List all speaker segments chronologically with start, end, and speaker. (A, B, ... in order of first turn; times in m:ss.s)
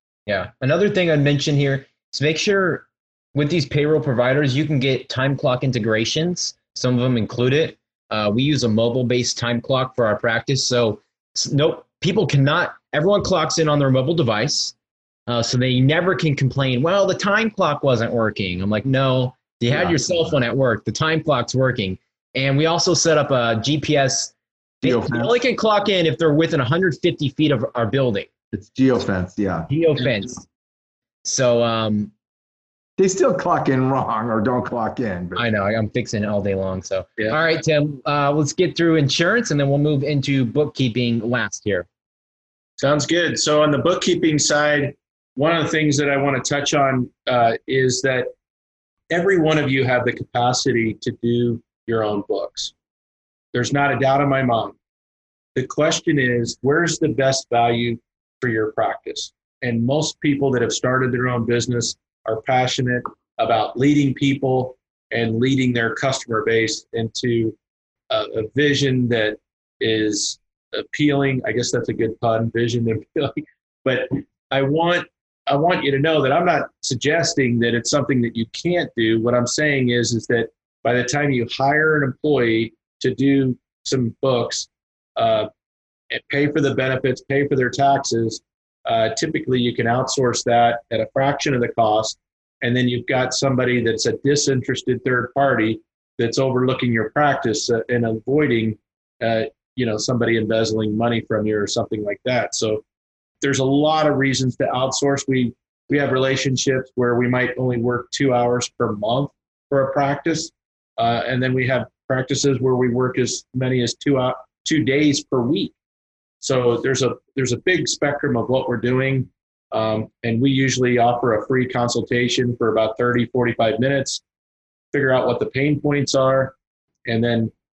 0:00.3-0:14.8 A
0:15.3-0:28.3 A
0:19.7-0:20.4 B
0:24.8-0:25.4 B
0:28.5-0:29.7 B
0:29.7-0:30.4 A
0:31.2-0:32.1 A
0:33.0-0:35.5 B
0:35.4-0:41.9 A
0:42.8-0:48.3 C
0:49.1-0:52.7 C
0:53.5-0:54.8 C
0:55.6-1:07.6 C
1:08.1-1:25.5 C
1:26.1-1:42.8 C
1:43.4-1:55.8 C
1:56.4-2:04.2 C
2:04.9-2:06.6 C
2:07.1-2:07.5 C